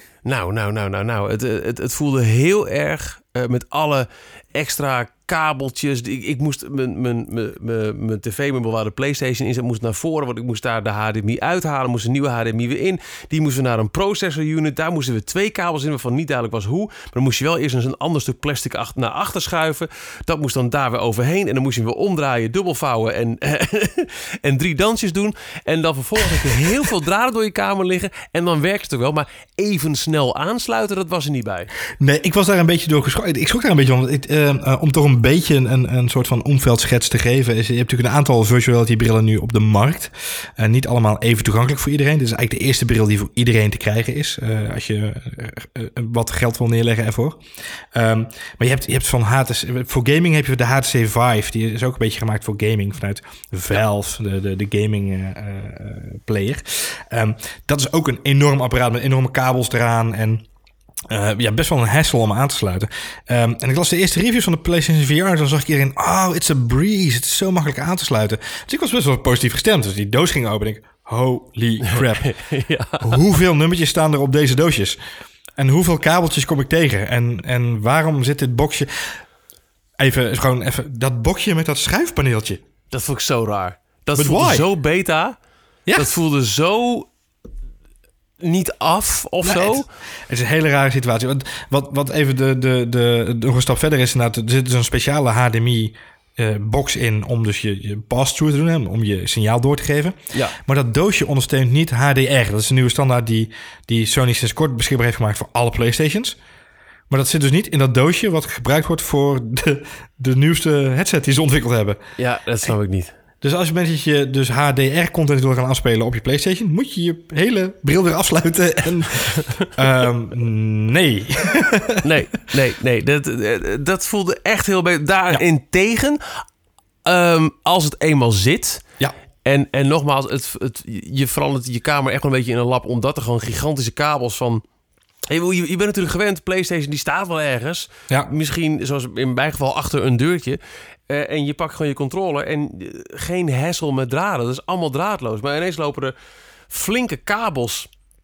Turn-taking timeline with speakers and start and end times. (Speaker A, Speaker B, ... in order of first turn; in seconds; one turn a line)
Speaker A: 0.2-31.7
Speaker B: 32.0-47.4
Speaker B: 47.9-60.5
Speaker B: 61.1-72.3
Speaker A: 71.8-73.2
Speaker B: 73.0-75.0
Speaker B: 75.6-79.2
Speaker B: 80.0-82.6
Speaker A: 82.9-85.4
Speaker B: 84.2-84.7
Speaker A: 85.9-87.1
Speaker A: 88.4-89.8
Speaker B: 89.4-106.4
Speaker B: 107.1-112.0
Speaker A: 112.2-113.1
Speaker B: 113.4-122.0
Speaker A: 122.0-126.4
Speaker A: 127.0-128.8
Speaker A: 129.4-134.6
Speaker A: 135.3-140.6
Speaker A: 141.1-146.1
Speaker A: 146.7-147.9